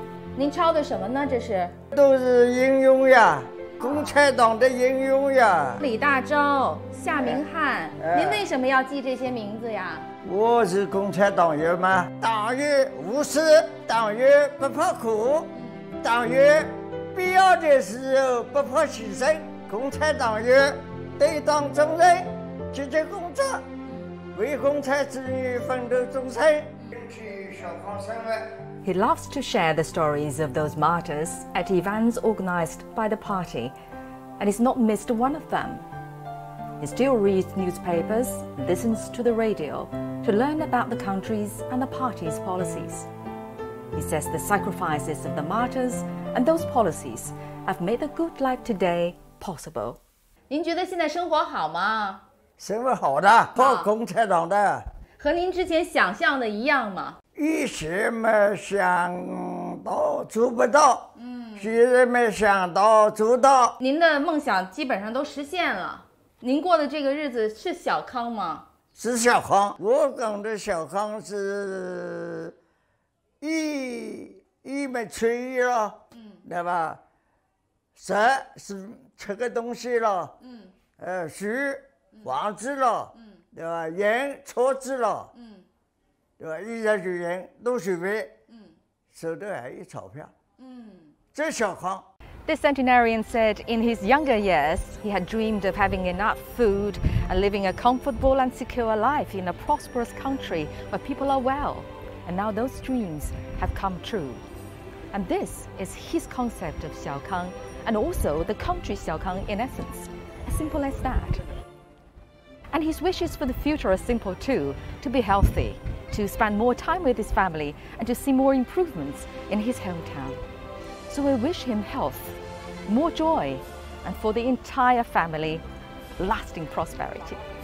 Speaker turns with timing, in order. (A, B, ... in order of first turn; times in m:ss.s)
0:00.3-0:01.7 A
0:01.9-0:05.8 B
0:03.8-0:04.2 A
0:05.8-0:10.1 A
0:07.1-0:07.4 B
0:08.0-0:08.4 B
0:10.2-0:23.6 B
0:15.5-0:15.9 A
0:24.3-0:28.6 B
0:28.8-0:33.7 C
0:34.4-0:35.8 C
0:36.8-0:43.1 C
0:43.9-0:50.0 C
0:50.5-0:52.2 A
0:52.6-0:54.8 B
0:53.5-0:53.9 A
0:55.2-0:57.2 A
0:57.4-1:03.8 B
1:01.2-1:01.8 A
1:03.8-1:08.6 A
1:08.9-1:12.6 B
1:13.4-1:17.0 B
1:16.1-1:16.4 A
1:17.9-1:20.4 B
1:20.4-1:20.7 A
1:21.0-1:25.3 B
1:25.3-1:25.6 A
1:26.4-1:28.3 B
1:28.5-1:28.7 A
1:29.1-1:30.3 B
1:30.6-1:31.1 A
1:31.3-1:32.0 B
1:32.4-1:44.4 C
1:45.1-1:51.5 C
1:52.7-2:00.4 C
2:01.1-2:05.6 C
2:06.2-2:07.4 C